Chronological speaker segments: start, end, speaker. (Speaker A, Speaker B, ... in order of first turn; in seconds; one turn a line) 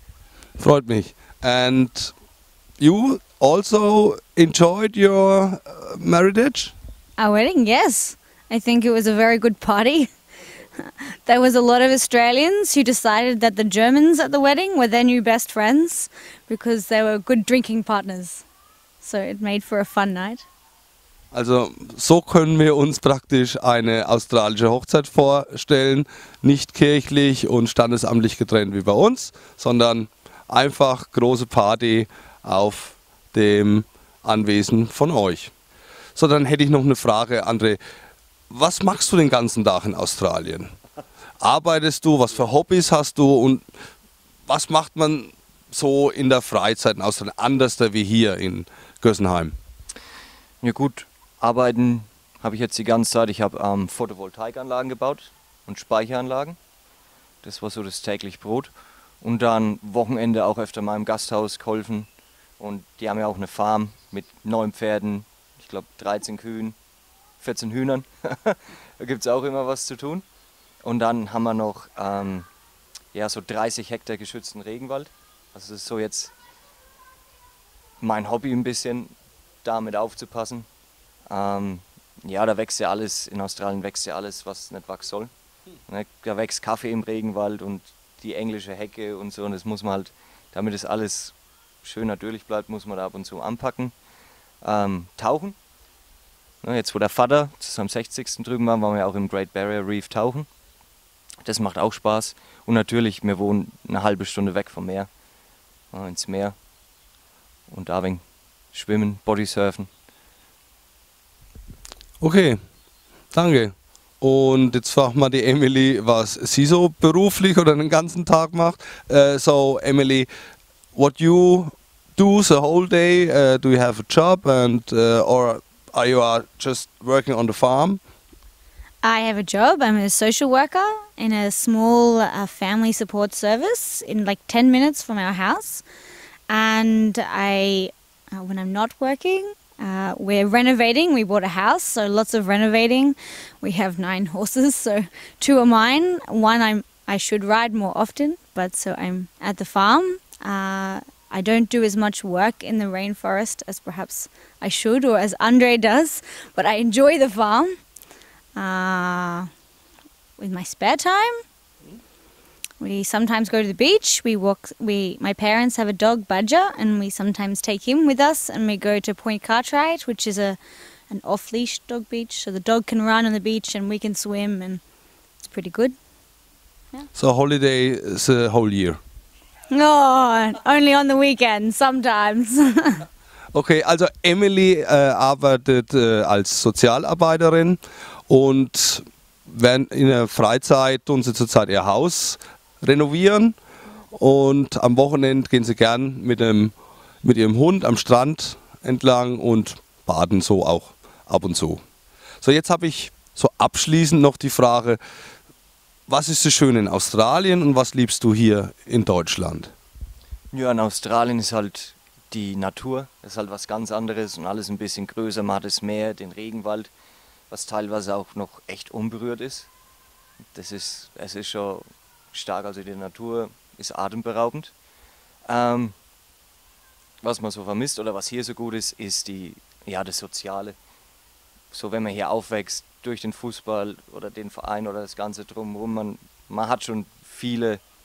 Speaker A: 0.6-2.1
Speaker A: 2.8-6.7
Speaker B: 7.2-10.1
Speaker B: 10.8-18.4
Speaker B: 19.0-20.5
Speaker A: 21.3-35.5
Speaker A: 36.1-37.8
Speaker A: 38.5-40.8
Speaker A: 41.4-43.7
Speaker A: 44.5-49.6
Speaker C: 50.6-56.6
Speaker C: 57.4-66.8
Speaker C: 67.4-70.2
Speaker C: 70.8-72.5
Speaker C: 73.1-76.3
Speaker C: 78.0-80.7
Speaker C: 81.3-85.3
Speaker C: 85.8-93.9
Speaker C: 94.6-95.6
Speaker C: 96.6-100.5
Speaker C: 101.4-105.1
Speaker C: 105.9-106.6
Speaker C: 107.7-109.9
Speaker A: 112.2-112.7
Speaker A: 113.3-120.3
Speaker A: 120.9-128.0
Speaker B: 129.0-135.8
Speaker B: 136.5-157.8
Speaker B: 158.6-159.5
Speaker B: 160.4-161.4
Speaker B: 162.8-170.6
Speaker B: 171.1-174.8
Speaker B: 175.4-176.0
Speaker A: 177.1-179.0
Speaker B: 179.7-183.0
Speaker A: 183.5-193.6
Speaker A: 194.1-201.8
Speaker A: 202.4-205.0
Speaker A: 206.1-209.7
Speaker C: 210.5-216.9
Speaker C: 217.5-219.7
Speaker C: 220.5-224.8
Speaker C: 225.4-226.0
Speaker C: 227.2-230.8
Speaker C: 231.7-237.8